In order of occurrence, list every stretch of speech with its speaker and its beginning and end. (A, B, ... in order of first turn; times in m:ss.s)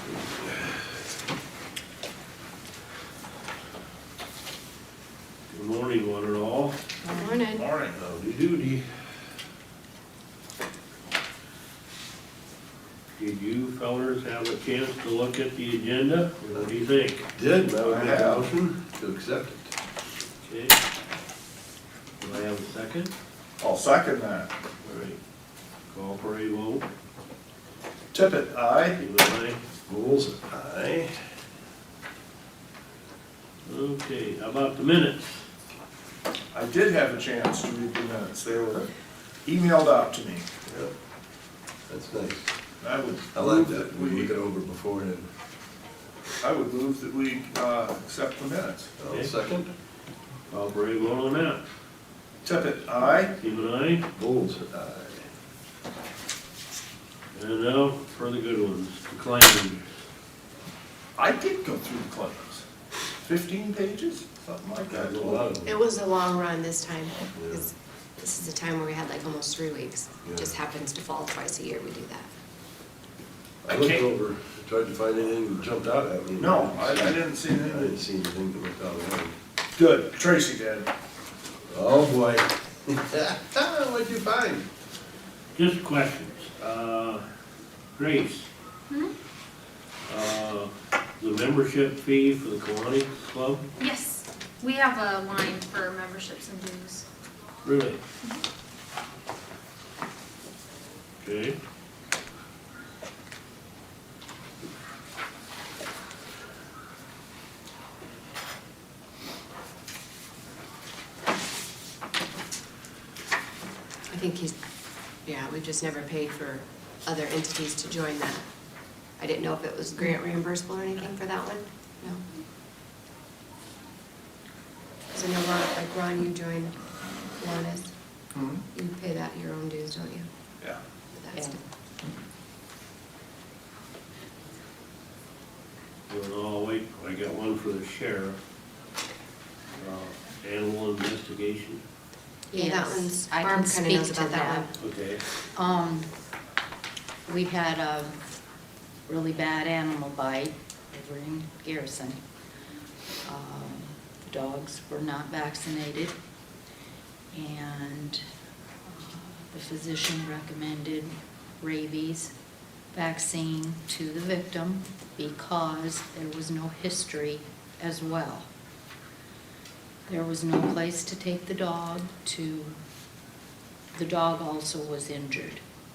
0:05.5-0:06.8 A
0:07.0-0:07.4 B
0:07.1-0:07.7 C
0:07.5-0:08.0 D
0:08.0-0:08.8 A
0:13.2-0:17.3 A
0:17.3-0:19.7 E
0:17.8-0:18.5 D
0:20.4-0:20.8 A
0:22.2-0:23.1 A
0:23.6-0:24.5 D
0:24.8-0:25.2 A
0:25.9-0:26.8 A
0:28.1-0:29.0 D
0:29.0-0:29.6 A
0:29.9-0:31.2 E
0:33.6-0:35.4 A
0:36.5-0:38.9 D
0:39.4-0:40.4 D
0:40.6-0:40.9 E
0:41.9-0:42.5 E
0:42.8-0:44.3 D
0:43.3-0:45.3 E
0:46.4-0:49.0 D
0:49.0-0:49.7 E
0:50.5-0:51.6 A
0:52.4-0:53.3 D
0:53.4-0:54.1 A
0:54.1-0:55.3 E
0:57.3-0:59.8 A
1:01.2-1:02.6 D
1:03.2-1:05.5 D
1:04.8-1:05.8 E
1:05.6-1:12.3 C
1:07.3-1:07.7 E
1:10.2-1:10.5 E
1:13.6-1:19.4 E
1:13.6-1:14.1 D
1:16.4-1:18.0 D
1:19.8-1:20.9 D
1:21.7-1:24.7 E
1:25.5-1:27.2 A
1:28.0-1:28.5 A
1:30.1-1:33.6 A
1:33.8-1:37.0 F
1:37.6-1:38.0 A
1:41.2-1:41.6 A
1:54.1-1:54.5 C
1:55.2-1:58.4 C
1:59.2-2:02.2 C
2:05.1-2:06.8 C
2:07.4-2:07.9 C
2:08.3-2:08.6 D
2:08.7-2:10.3 C
2:11.1-2:11.6 C
2:11.3-2:11.6 B
2:16.1-2:18.4 A
2:19.8-2:20.1 D
2:20.4-2:21.8 A
2:22.5-2:24.7 C
2:22.5-2:24.7 B
2:24.8-2:25.2 A
2:25.5-2:26.1 B
2:27.2-2:28.2 B
2:29.1-2:32.2 B
2:33.2-2:36.2 B
2:37.3-2:38.2 B
2:38.8-2:42.3 B
2:42.9-2:48.5 B
2:50.1-2:52.8 B
2:53.9-2:55.6 B